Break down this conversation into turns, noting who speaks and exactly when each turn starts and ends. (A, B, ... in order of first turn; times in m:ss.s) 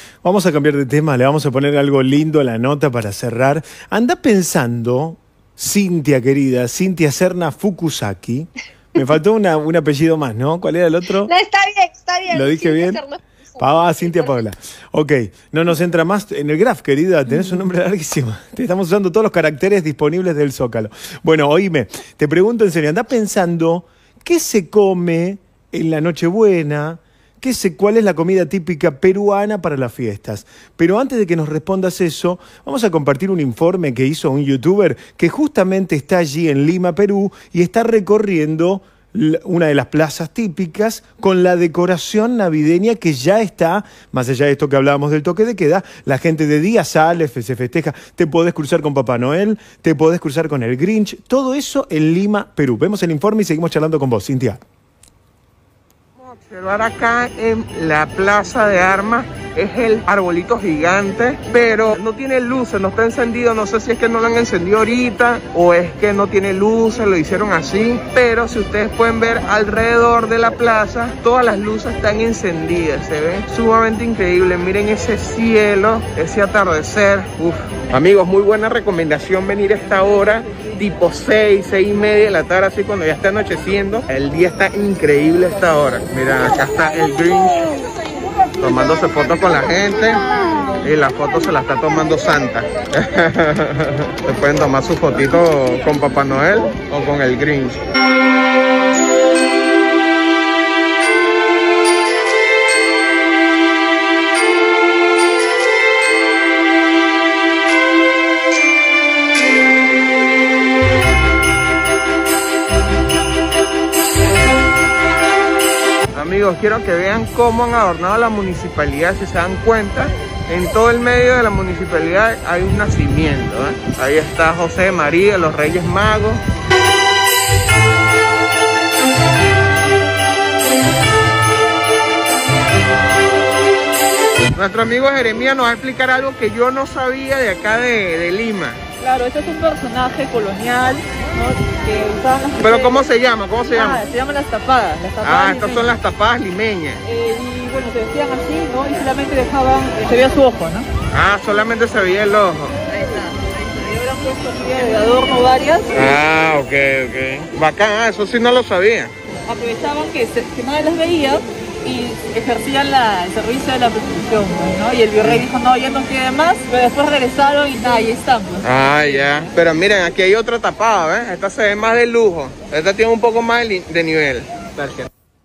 0:00.2-0:11.3 A
0:11.3-0:14.4 B
0:12.3-0:13.0 A
0:13.6-0:54.6 A
0:56.2-1:27.6 C
1:28.6-1:30.2 C
1:30.8-1:37.8 C
1:56.2-2:06.4 C
2:14.6-2:18.8 C
2:19.0-2:23.1 D
2:22.6-2:24.0 C
2:23.6-2:25.9 D
2:25.2-2:27.0 C
2:27.0-2:30.9 D
2:31.1-2:32.8 C
2:32.9-2:36.2 D
2:35.9-2:39.1 C
2:39.5-2:49.5 D
2:48.6-2:55.1 C